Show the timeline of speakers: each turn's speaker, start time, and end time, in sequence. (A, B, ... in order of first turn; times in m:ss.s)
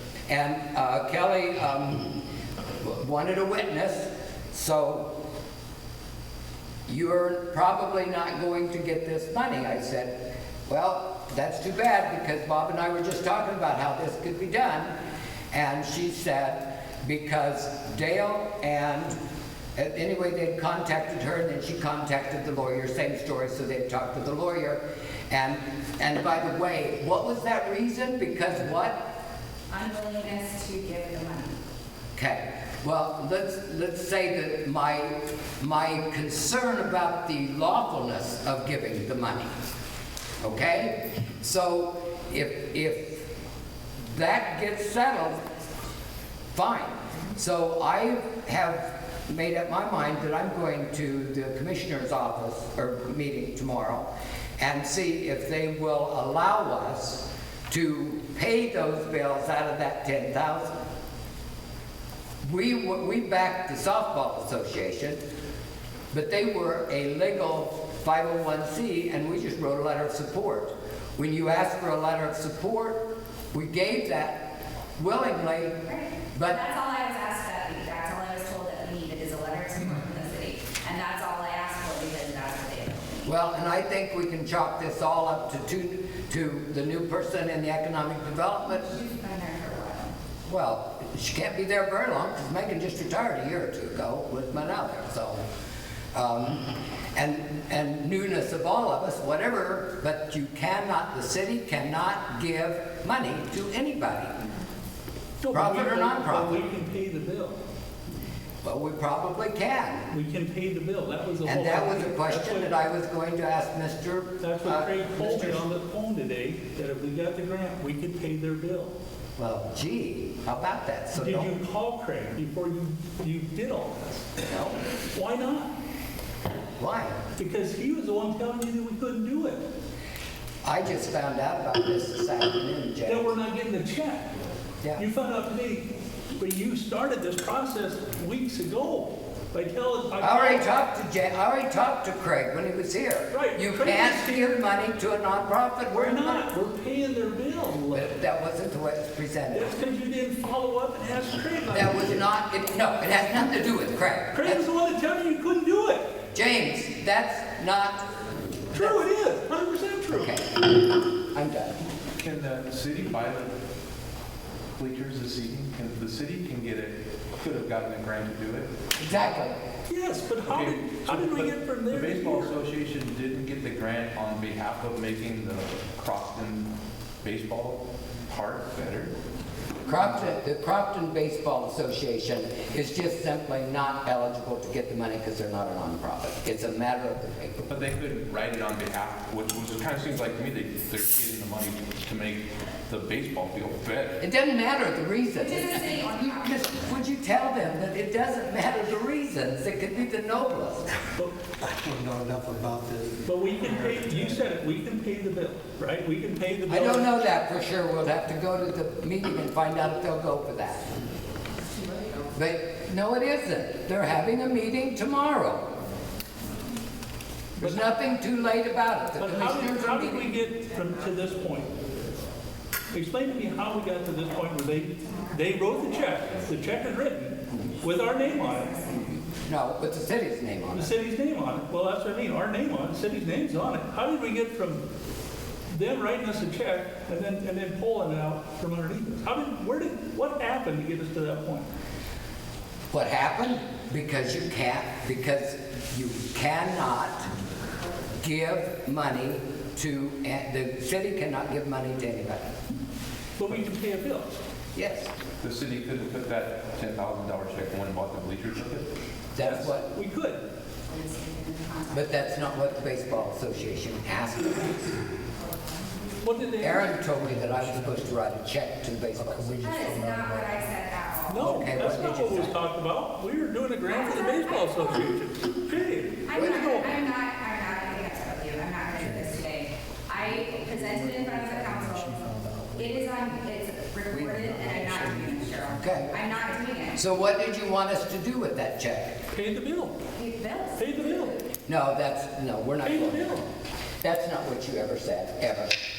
0:00.3-0:02.1 A
0:02.8-0:05.1 A
0:06.9-0:15.0 A
0:15.5-0:19.2 A
0:19.8-0:29.0 A
0:29.7-0:31.6 B
0:32.2-0:39.5 A
0:40.4-0:43.3 A
0:44.0-0:45.5 A
0:46.5-1:00.8 A
1:02.4-1:05.2 A
1:06.1-1:15.8 A
1:15.9-1:23.3 B
1:16.3-1:16.6 A
1:23.2-1:28.9 A
1:28.7-1:30.2 B
1:30.5-1:35.4 A
1:36.1-1:44.4 A
1:45.4-1:47.6 C
1:45.5-1:46.6 A
1:48.6-1:50.1 A
1:50.1-1:52.8 C
1:51.4-1:55.6 A
1:54.4-1:59.0 C
1:59.4-2:01.5 A
2:01.1-2:04.3 C
2:04.4-2:04.8 A
2:05.1-2:05.7 C
2:06.8-2:07.2 A
2:07.4-2:09.7 C
2:10.6-2:13.3 A
2:13.1-2:14.3 C
2:15.0-2:20.7 C
2:20.2-2:26.5 A
2:23.3-2:24.6 C
2:25.9-2:28.1 C
2:27.9-2:29.7 A
2:29.5-2:32.2 C
2:31.7-2:34.6 A
2:34.3-2:36.1 C
2:36.3-2:38.1 A
2:38.7-2:40.3 C
2:40.1-2:40.8 A
2:41.3-2:41.8 A
2:42.2-2:43.5 D
2:44.7-2:48.7 D
2:49.0-2:49.6 A
2:49.9-2:52.6 C
2:50.4-2:56.7 D
2:57.2-2:59.1 D
2:59.8-3:07.8 A
3:07.7-3:14.2 D
3:14.2-3:21.0 A
3:15.4-3:16.7 B
3:21.2-3:21.4 C
3:21.6-3:24.4 E
3:23.2-3:27.2 C
3:26.7-3:30.9 A
3:32.3-3:35.7 A
3:37.6-3:38.0 C
3:37.6-3:40.3 A
3:39.2-3:41.7 C
3:42.9-3:48.8 C
3:45.0-3:46.0 B
3:48.2-3:49.2 B
3:49.4-3:51.0 A
3:50.7-3:54.8 C
3:55.7-4:01.7 C
4:02.9-4:07.3 A
4:08.2-4:12.5 A
4:13.4-4:14.3 C
4:14.8-4:15.1 A
4:15.4-4:18.9 D
4:19.3-4:19.9 A
4:19.4-4:20.4 C
4:20.9-4:22.6 B
4:21.9-4:25.0 A
4:25.4-4:25.8 B
4:26.2-4:26.9 C
4:26.6-4:29.8 A
4:27.0-4:28.3 E
4:29.1-4:30.8 E
4:29.6-4:31.6 B
4:31.3-4:36.9 C
4:31.4-4:32.6 A
4:33.9-4:34.9 B
4:36.2-4:47.0 B
4:38.9-4:39.4 E
4:40.2-4:43.3 E
4:44.1-4:46.2 E
4:45.8-4:46.1 A
4:47.0-4:49.2 A
4:49.3-4:50.0 C
4:50.1-4:51.4 B
4:50.8-4:51.4 C
4:51.7-4:53.4 A
4:52.8-4:53.4 C
4:54.0-4:55.7 A